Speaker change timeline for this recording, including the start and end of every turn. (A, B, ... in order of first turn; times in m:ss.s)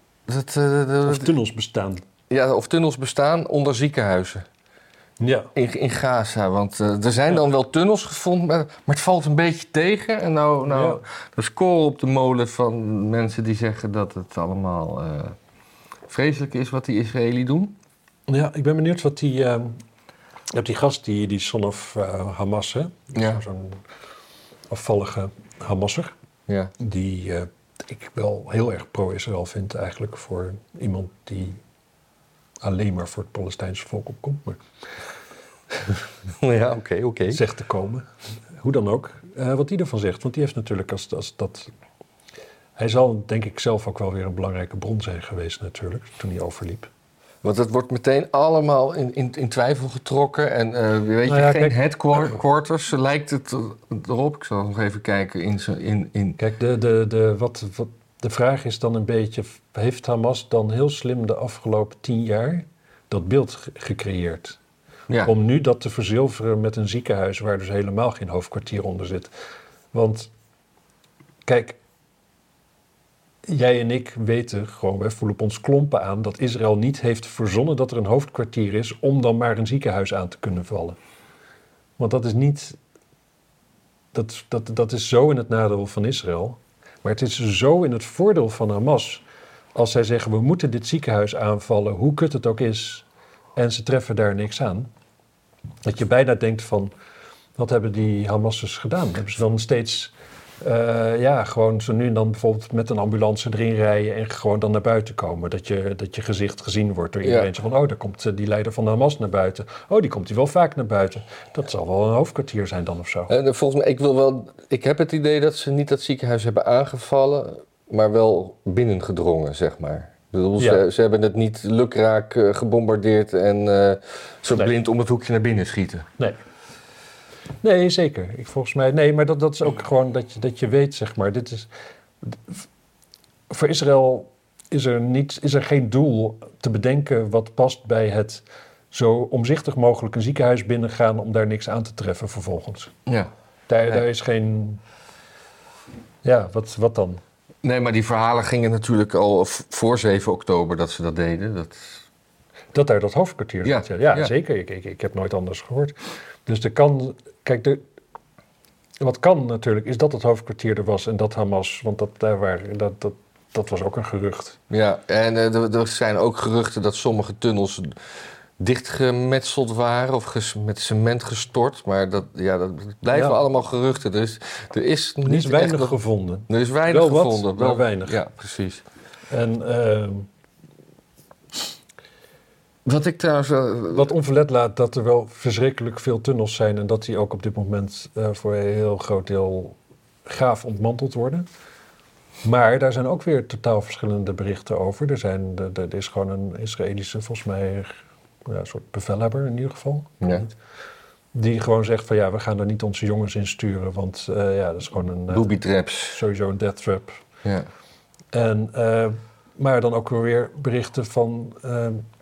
0:00.3-0:01.3 A
0:01.0-0:02.0 B
0:02.3-0:04.4 A
0:05.2-0:05.5 B
0:05.5-0:15.4 A
0:10.7-0:11.0 B
0:16.1-0:17.8 A
0:18.3-0:19.8 B
0:20.5-0:23.8 B
0:23.1-0:23.4 A
0:24.7-0:26.1 B
0:26.8-0:31.6 B
0:32.6-0:34.6 B
0:36.4-0:37.4 A
0:37.3-0:41.7 B
0:42.8-0:46.9 B
0:47.4-0:56.4 A
0:51.2-0:52.4 B
0:56.4-1:04.6 B
1:05.2-1:09.3 B
1:09.9-1:10.3 B
1:11.4-1:11.8 B
1:13.4-1:21.0 B
1:22.0-1:22.8 B
1:24.1-1:29.2 B
1:29.7-1:34.9 B
1:35.8-1:36.9 B
1:37.6-1:53.3 B
1:47.2-1:47.5 A
1:53.3-2:06.0 A
2:00.6-2:00.8 B
2:07.6-2:11.7 B
2:12.2-2:12.6 B
2:13.5-2:22.9 B
2:23.0-2:23.3 A
2:23.7-2:24.8 B
2:26.2-2:27.2 B
2:27.6-2:32.0 A
2:32.7-2:37.8 B
2:33.6-2:34.3 A
2:39.0-2:44.6 B
2:44.7-2:58.8 A
2:53.1-2:53.4 B
2:55.2-2:58.2 B
2:59.3-3:00.3 B
3:02.8-3:04.1 A
3:03.9-3:11.4 B
3:12.4-3:20.5 B
3:21.3-3:25.5 B
3:25.3-3:26.2 A
3:26.1-3:27.2 B
3:28.3-3:32.0 B